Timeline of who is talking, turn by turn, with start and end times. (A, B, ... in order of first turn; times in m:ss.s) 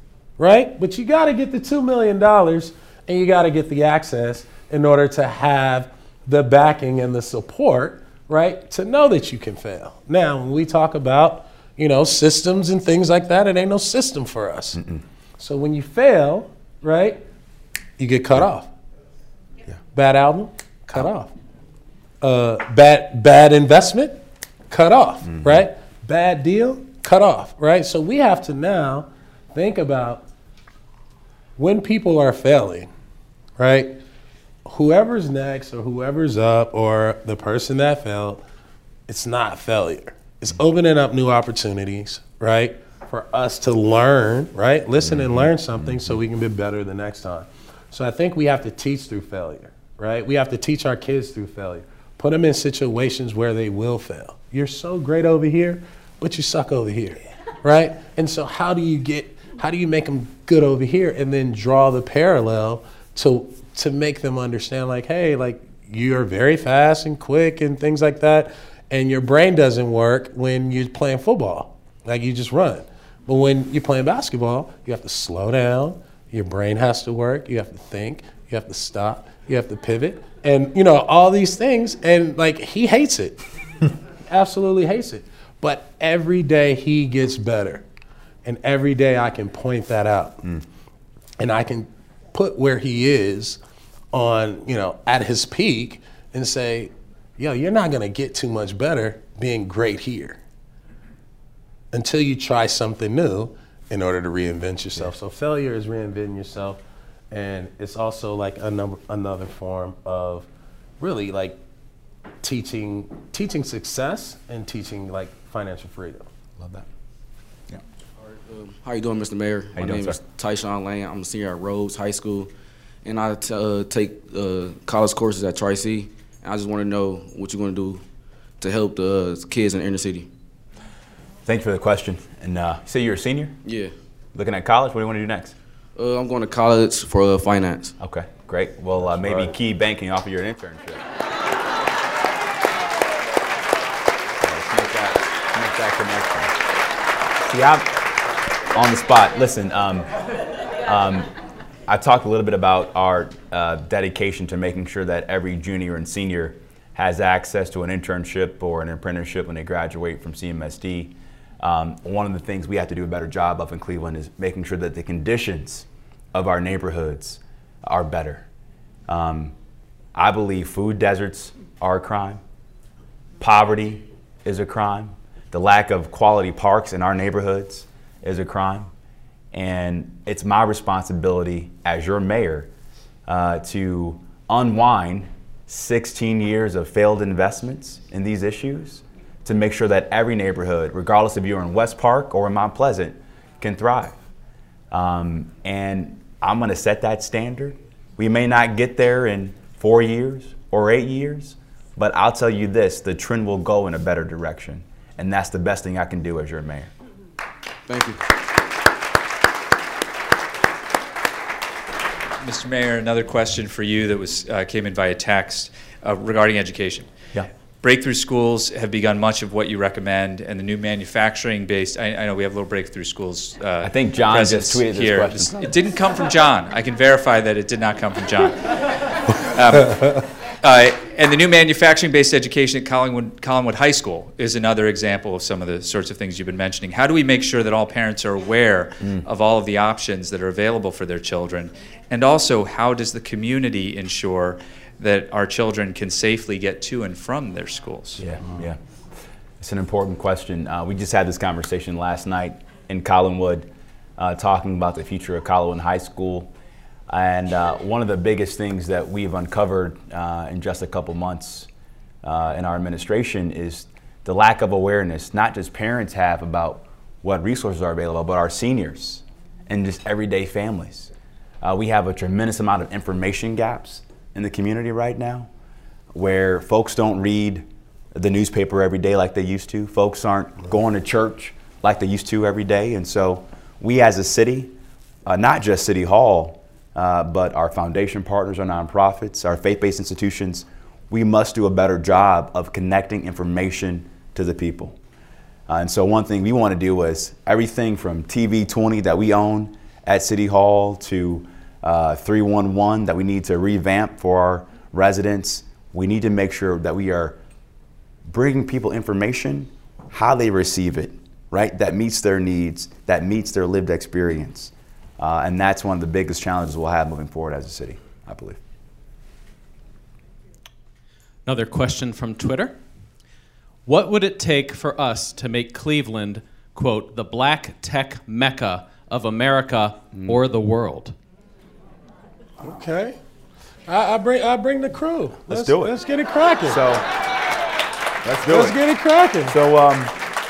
0:00.4-0:14.8 A
0:14.8-0:15.0 B
0:15.4-0:17.2 A
0:18.0-0:18.7 A
0:19.9-0:21.3 A
0:22.2-0:30.2 A
0:25.4-0:25.6 B
0:31.6-0:32.9 A
0:33.6-0:34.0 A
0:34.6-0:38.4 A
0:39.1-1:23.4 A
0:45.0-0:46.1 B
1:24.2-1:27.8 A
1:28.4-1:30.5 A
1:31.4-1:33.6 A
1:34.1-1:40.4 A
1:41.9-1:46.8 A
1:47.3-1:50.5 A
1:51.0-1:51.6 A
1:52.4-1:56.3 A
1:58.2-2:02.5 C
1:59.8-2:00.2 B
2:03.0-2:08.0 C
2:08.6-2:10.3 C
2:11.4-2:13.6 B
2:13.6-2:13.9 C
2:14.3-2:15.5 B
2:16.0-2:18.0 C
2:18.0-2:21.0 B
2:19.1-2:19.5 C
2:24.4-2:26.5 B
2:27.4-2:28.1 B
2:28.7-2:30.1 B
2:30.8-2:31.3 B
2:31.9-2:48.4 B
2:49.1-2:49.5 B
2:50.1-2:52.4 B
2:53.4-2:58.9 B
2:59.5-3:02.7 B
3:03.2-3:14.2 B
3:14.9-3:26.9 B
3:27.9-3:28.2 C
3:32.4-3:37.1 D
3:37.8-4:08.2 D
3:43.8-3:45.8 B
3:59.0-3:59.2 B
4:08.2-4:08.8 B
4:09.6-4:16.5 B
4:17.1-4:21.7 B
4:22.2-4:35.5 B
4:36.1-4:44.7 B
4:45.2-4:55.0 B
4:55.7-5:07.4 B
5:08.3-5:18.6 B
5:21.4-5:22.8 E
5:23.8-5:31.2 E
5:30.1-5:30.4 B
5:32.6-5:33.2 A
5:33.9-5:36.8 A
5:35.5-5:36.0 B
5:36.6-5:37.0 B
5:38.2-5:38.8 B
5:38.5-5:39.6 A
5:39.5-5:40.2 B